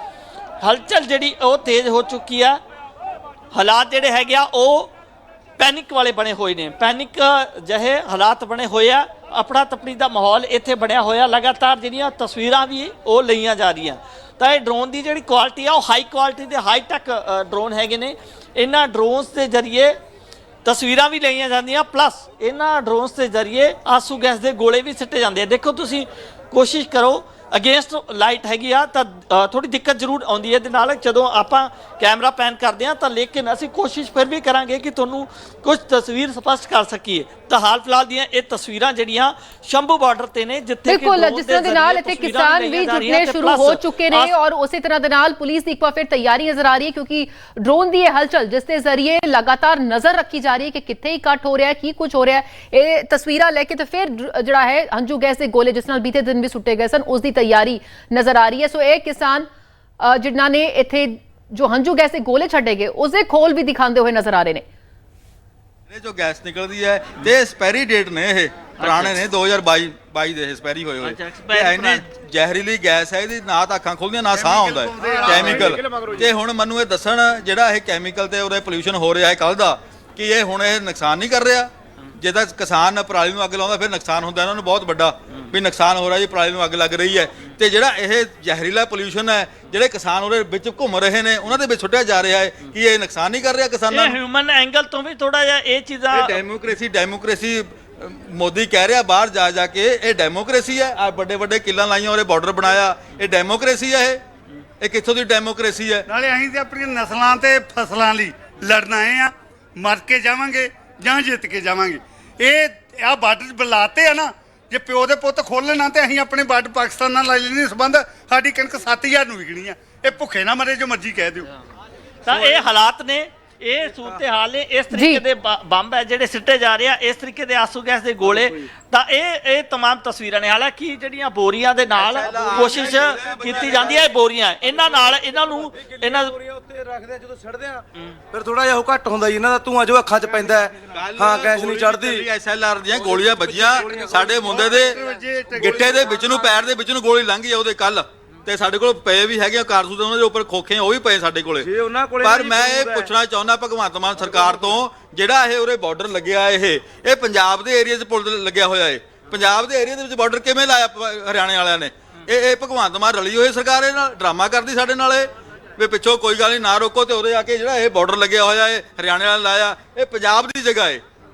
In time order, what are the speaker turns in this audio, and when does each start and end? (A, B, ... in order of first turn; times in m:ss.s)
0:00.6-0:02.6 A
0:03.5-0:04.9 A
0:05.6-0:20.0 A
0:20.6-0:44.3 A
0:40.9-0:59.5 B
1:00.0-1:04.6 B
1:05.9-1:34.2 C
1:08.8-1:09.2 A
1:11.0-1:12.1 A
1:14.3-1:16.1 D
1:33.9-1:36.4 A
1:36.1-1:44.2 C
1:44.8-1:46.1 C
1:46.1-2:01.5 D
2:02.2-2:16.4 A
2:04.9-2:05.2 B
2:12.0-2:14.0 C
2:16.0-2:22.2 E
2:20.9-2:25.0 C
2:23.0-2:24.9 E
2:24.5-2:26.0 D
2:25.6-2:51.0 C
2:31.6-2:33.1 E